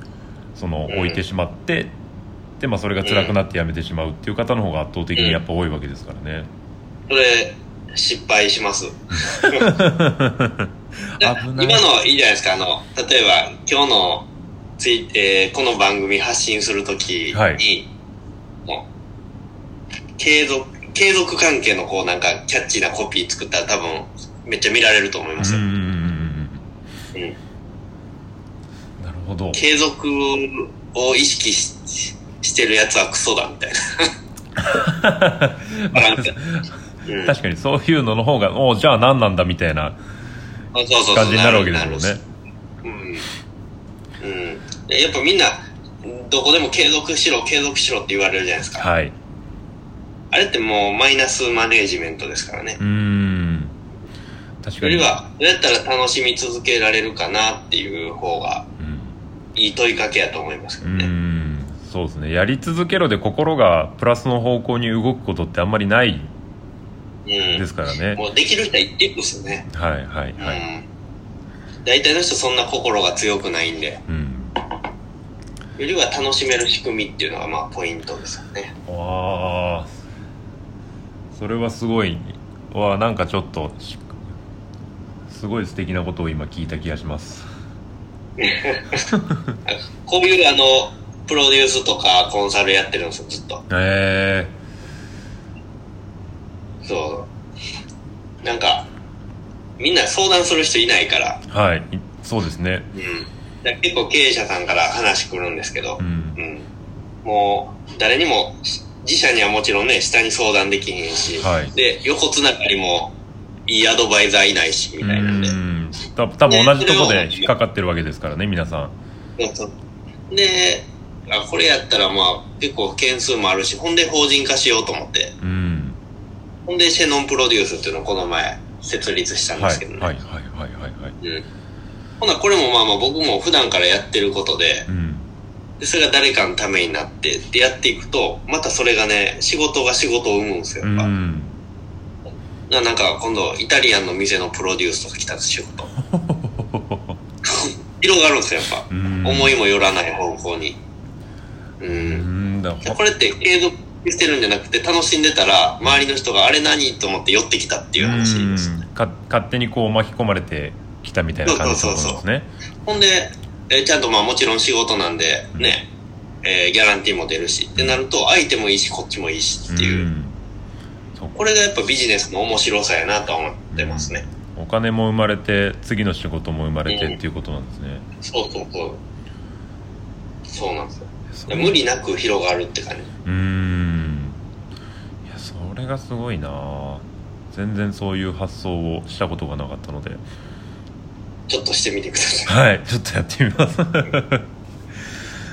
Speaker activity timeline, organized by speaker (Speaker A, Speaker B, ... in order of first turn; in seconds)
Speaker A: 0.6-1.9, 2.6-6.5, 9.1-11.8, 17.3-17.6, 25.4-26.6, 29.0-29.6, 34.6-40.0, 41.1-42.2, 48.7-49.1, 52.8-53.7, 54.6-55.1, 58.8-59.2, 60.8-66.3, 67.5-68.2, 69.7-70.6, 74.1-74.5, 78.9-80.0, 81.3-84.3, 85.3-87.5, 89.0-89.4, 93.7-94.6, 101.5-102.9, 106.0-106.4, 111.4-111.7, 115.0-118.9, 125.4-126.0, 129.6-131.2, 134.9-135.3, 140.8-141.6, 146.0-147.2, 148.9-149.6, 151.9-153.0, 158.0-162.5, 167.8-168.0, 169.7-170.4, 173.7-178.1, 181.3-181.8, 183.2-184.4, 185.2-190.2, 192.5-195.2
Speaker B: 0.9-1.2, 3.0-3.3, 5.1-5.4, 7.1-9.7, 11.2-17.9, 20.2-25.6, 29.5-34.1, 35.9-36.3, 37.1-37.3, 40.7-42.1, 42.8-43.2, 44.2-48.9, 50.3-52.8, 54.8-58.7, 59.5-61.1, 67.2-69.7, 70.4-70.8, 71.8-74.0, 75.8-78.7, 88.4-89.0, 89.7-93.6, 96.8-97.3, 98.4-98.9, 99.8-101.4, 102.9-106.7, 107.2-113.1, 113.7-115.5, 116.5-117.5, 119.4-119.7, 120.3-125.3, 126.7-130.1, 132.2-134.9, 135.8-141.1, 142.7-145.9, 147.4-150.8, 151.8-152.3, 152.8-158.7, 161.4-162.2, 162.8-165.9, 166.4-170.1, 171.3-174.2, 176.9-177.2, 178.2-179.0, 180.5-183.1, 191.5-192.5